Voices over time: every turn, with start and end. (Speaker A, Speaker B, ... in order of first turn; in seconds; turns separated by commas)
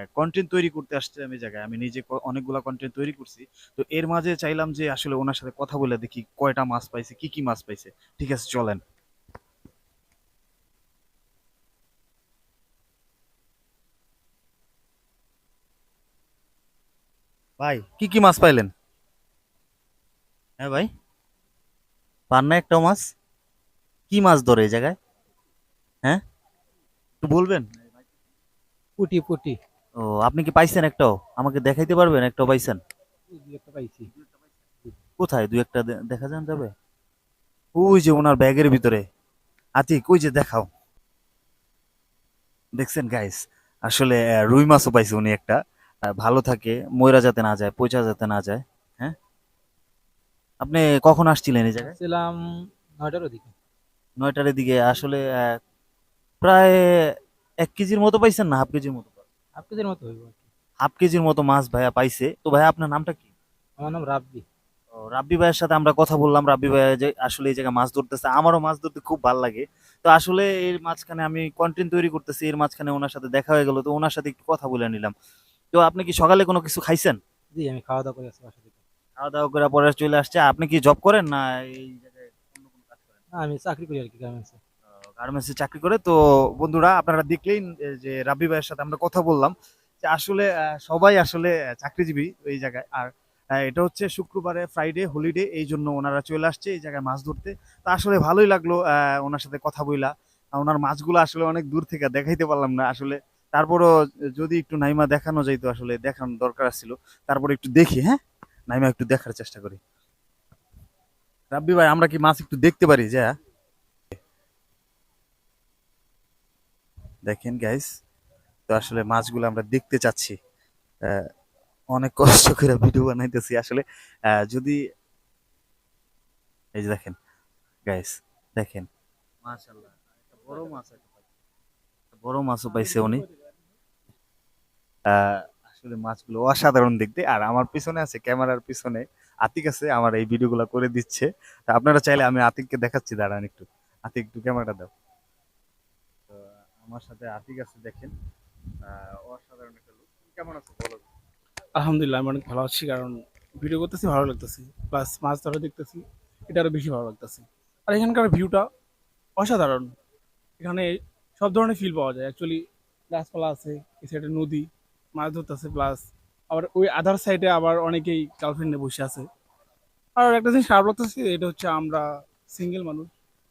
Speaker A: 0.2-8.8, Speaker A: 17.6-18.7, Speaker A: 20.6-20.9, Speaker A: 22.3-23.0, Speaker A: 24.1-24.9, Speaker A: 27.2-27.7, Speaker B: 29.0-29.6, Speaker A: 30.1-32.8, Speaker B: 33.3-34.1, Speaker A: 35.2-36.7, Speaker A: 37.8-39.0, Speaker A: 39.8-40.7, Speaker A: 42.8-45.6, Speaker A: 46.2-49.1, Speaker A: 50.6-51.9, Speaker B: 51.8-52.4, Speaker B: 53.0-53.5, Speaker A: 54.2-55.2, Speaker A: 56.4-56.8, Speaker A: 57.6-59.2, Speaker B: 59.6-60.5, Speaker A: 60.8-63.2, Speaker B: 63.8-64.5, Speaker A: 65.1-75.1, Speaker A: 75.7-77.2, Speaker B: 77.5-78.8, Speaker A: 79.2-83.2, Speaker B: 83.3-84.6, Speaker A: 85.2-93.1, Speaker A: 93.6-103.9, Speaker A: 104.4-108.2, Speaker A: 108.7-109.8, Speaker A: 111.5-113.3, Speaker A: 117.3-117.9, Speaker A: 118.7-120.4, Speaker A: 121.9-123.8, Speaker A: 124.5-124.8, Speaker A: 126.8-127.2, Speaker A: 127.9-128.9, Speaker A: 129.4-131.2, Speaker A: 132.2-133.2, Speaker A: 135.3-144.9, Speaker A: 146.3-148.1, Speaker A: 148.9-151.0, Speaker C: 151.8-158.6, Speaker C: 159.4-159.9, Speaker C: 160.6-160.9, Speaker C: 161.4-162.6, Speaker C: 163.1-164.7, Speaker C: 165.2-169.2, Speaker C: 170.2-172.0, Speaker C: 172.6-173.1